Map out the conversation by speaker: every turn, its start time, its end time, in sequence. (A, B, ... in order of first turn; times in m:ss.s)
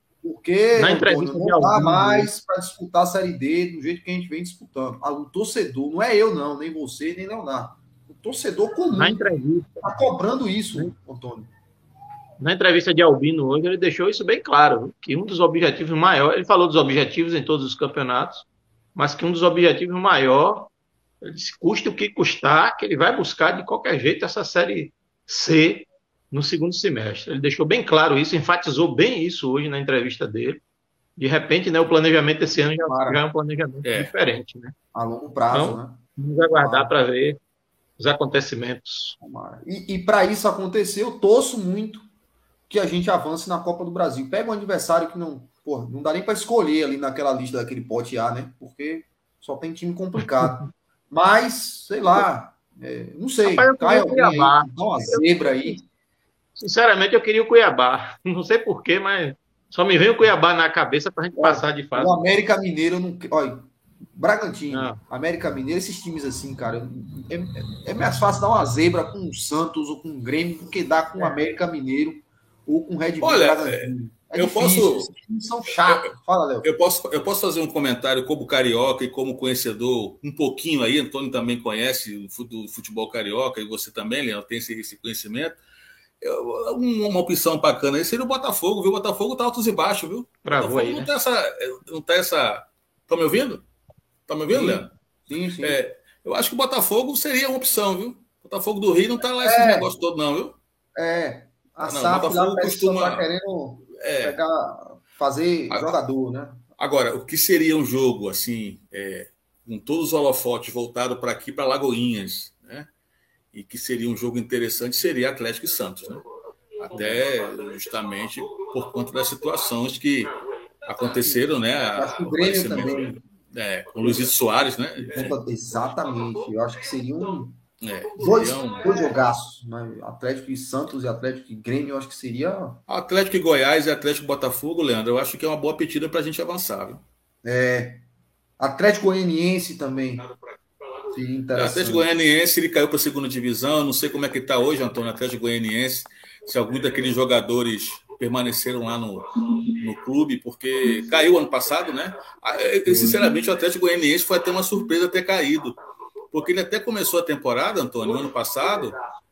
0:00.2-0:09.2 A
0:00.8-0:02.3 B
0:09.0-0:09.9 B
0:09.8-0:11.5 A
0:12.4-0:20.7 B
0:21.2-0:30.6 B
0:31.2-0:34.7 B
0:32.8-0:33.2 A
0:33.8-0:34.2 C
0:34.9-0:36.9 A
0:35.5-0:37.4 B
0:38.0-0:39.1 B
0:39.2-0:42.0 A
0:42.7-0:55.8 A
0:50.2-0:50.7 B
0:53.4-0:55.8 B
0:56.6-1:02.2 B
1:01.4-1:16.7 A
1:04.7-1:05.0 B
1:13.2-1:15.1 C
1:15.8-1:16.1 C
1:16.6-1:25.6 C
1:26.2-1:33.6 C
1:30.4-1:31.1 B
1:34.3-1:34.9 C
1:34.5-1:35.8 A
1:35.6-1:40.6 C
1:39.4-1:39.9 A
1:41.0-1:46.6 A
1:41.8-1:43.2 C
1:44.0-1:44.4 C
1:45.7-1:46.0 C
1:46.8-1:52.9 C
1:53.5-1:56.2 C
1:56.8-2:00.3 C
1:56.9-1:57.2 A
2:00.8-2:05.4 C
2:01.9-2:03.2 A
2:04.0-2:04.3 A
2:05.0-2:07.6 A
2:07.8-2:09.0 C
2:08.2-2:12.8 A
2:12.9-2:17.0 C
2:17.4-2:18.0 A
2:18.6-2:20.2 A
2:21.1-2:22.0 A
2:21.5-2:35.8 C
2:32.8-2:33.2 A
2:36.3-2:39.0 C